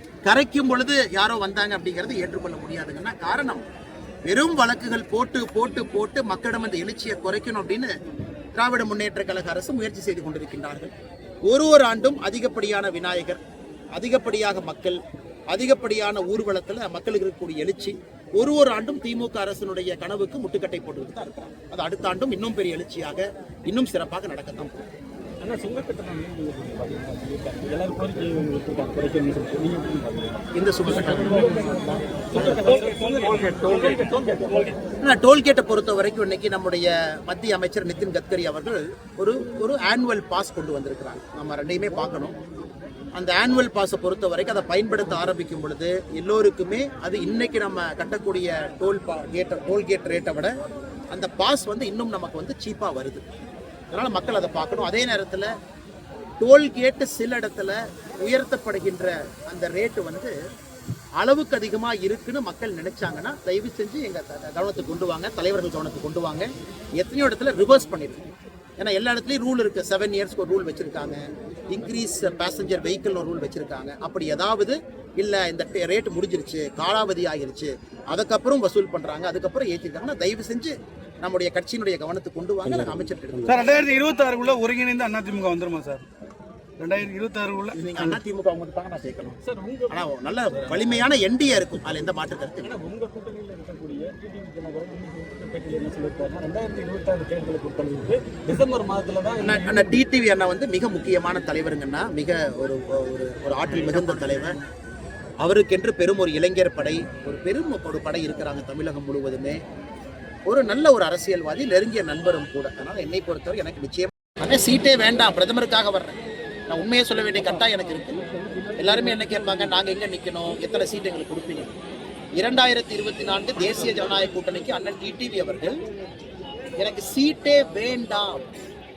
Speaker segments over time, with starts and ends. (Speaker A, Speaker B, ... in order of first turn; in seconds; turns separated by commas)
Speaker A: 0.2-3.6, Speaker A: 4.2-7.9, Speaker A: 8.5-10.9, Speaker A: 11.4-13.4, Speaker A: 13.9-15.0, Speaker A: 15.5-24.8, Speaker B: 25.4-30.4, Speaker A: 30.5-32.6, Speaker B: 30.9-34.8, Speaker A: 35.0-42.4, Speaker A: 43.1-50.5, Speaker A: 51.1-53.2, Speaker A: 53.9-55.5, Speaker A: 56.4-60.3, Speaker A: 61.2-68.2, Speaker A: 68.8-71.2, Speaker A: 71.7-83.8, Speaker C: 83.4-86.0, Speaker C: 86.8-87.8, Speaker A: 87.7-89.3, Speaker B: 89.4-91.0, Speaker A: 89.9-92.7, Speaker B: 92.6-100.0, Speaker A: 99.4-104.5, Speaker A: 105.4-109.6, Speaker A: 110.5-116.2, Speaker A: 116.7-118.2, Speaker A: 118.8-121.7, Speaker A: 122.4-125.7, Speaker A: 126.8-128.4